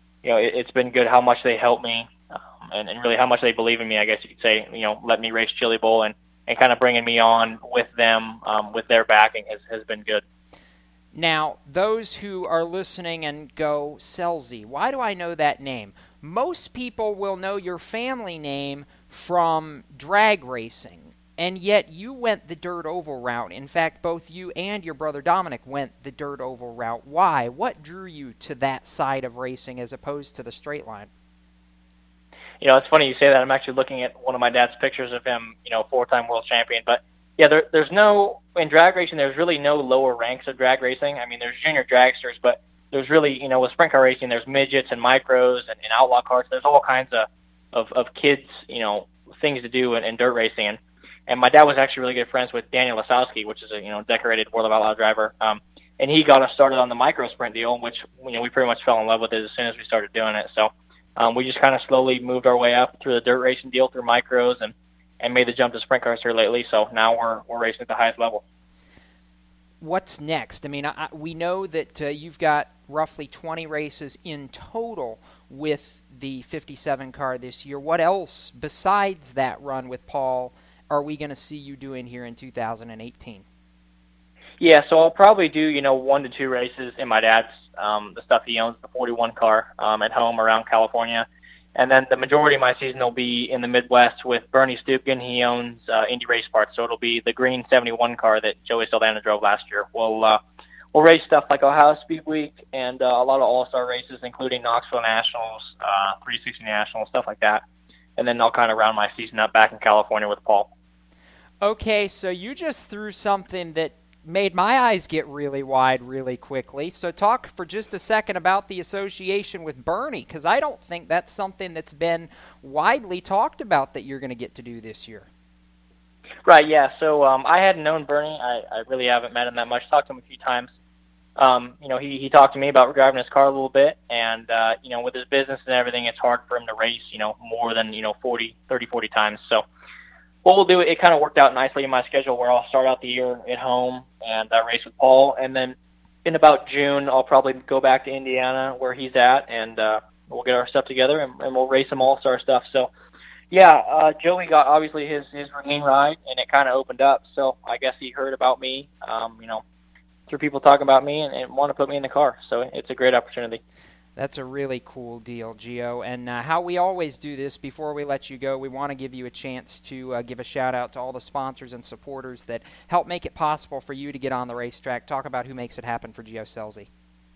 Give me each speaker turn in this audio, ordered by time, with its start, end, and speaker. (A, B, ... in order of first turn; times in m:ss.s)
0:00.2-0:10.2 A
0:11.1-0:31.1 B
0:32.6-1:08.4 A
1:09.8-1:23.4 B
1:24.6-1:40.4 A
1:40.9-1:47.6 A
1:48.2-1:50.7 A
1:51.6-2:05.3 B
2:06.4-2:10.7 A
2:11.4-2:19.6 A
2:20.4-2:25.7 A
2:26.2-2:32.9 A
2:33.5-2:39.6 A
2:40.3-2:43.6 A
2:44.2-2:56.9 B